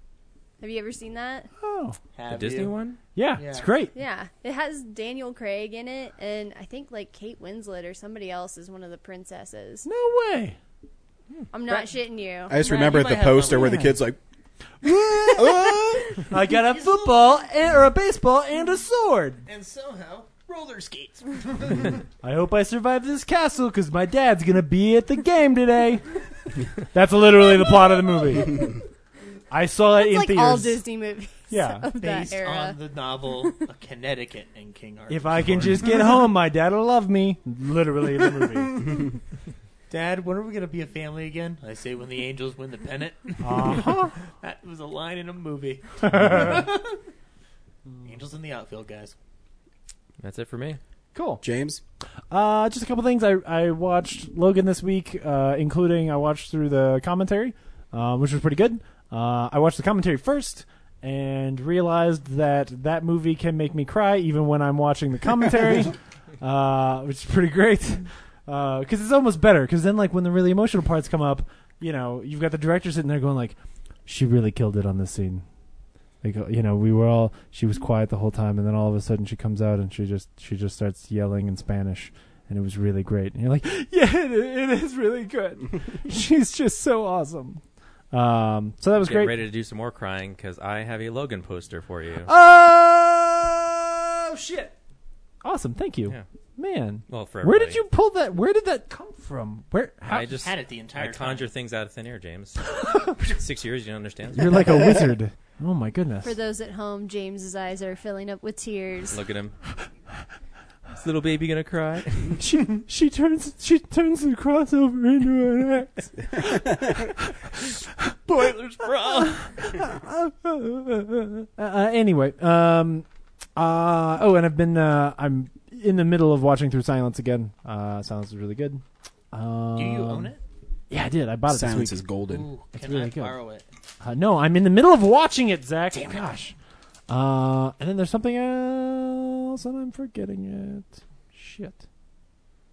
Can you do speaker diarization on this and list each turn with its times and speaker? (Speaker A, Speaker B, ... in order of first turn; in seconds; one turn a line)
Speaker A: 0.6-1.5
Speaker B: 1.6-2.0
Speaker C: 2.1-2.8
Speaker D: 2.3-3.0
Speaker B: 3.1-3.9
Speaker C: 3.4-3.7
Speaker A: 3.9-9.9
Speaker B: 9.8-10.6
Speaker A: 11.5-12.5
Speaker E: 12.5-14.2
Speaker C: 12.5-13.9
Speaker B: 13.5-14.0
Speaker B: 14.8-19.4
Speaker E: 15.4-16.1
Speaker C: 16.5-17.4
Speaker C: 19.4-22.0
Speaker B: 22.2-26.1
Speaker B: 26.9-28.7
Speaker B: 29.5-30.8
Speaker A: 29.9-32.8
Speaker B: 31.5-31.9
Speaker C: 32.0-36.2
Speaker B: 35.1-38.8
Speaker C: 38.2-39.1
Speaker C: 39.9-47.0
Speaker B: 43.4-44.1
Speaker B: 46.0-46.6
Speaker C: 48.0-49.1
Speaker D: 50.2-50.8
Speaker B: 51.1-51.4
Speaker E: 51.4-51.8
Speaker B: 52.3-75.4
Speaker B: 76.2-89.4
Speaker D: 89.0-92.3
Speaker B: 92.2-94.7
Speaker B: 95.4-100.3
Speaker D: 97.1-97.8
Speaker D: 100.1-104.9
Speaker C: 100.4-101.5
Speaker B: 104.3-106.4
Speaker A: 106.2-109.2
Speaker D: 109.1-109.5
Speaker D: 110.9-112.4
Speaker B: 112.3-118.5
Speaker C: 118.3-119.7
Speaker B: 119.0-130.3
Speaker C: 129.7-130.4
Speaker B: 130.9-132.0
Speaker E: 131.5-132.5
Speaker C: 132.3-133.6
Speaker B: 132.7-133.4
Speaker B: 134.0-136.5
Speaker B: 137.1-141.8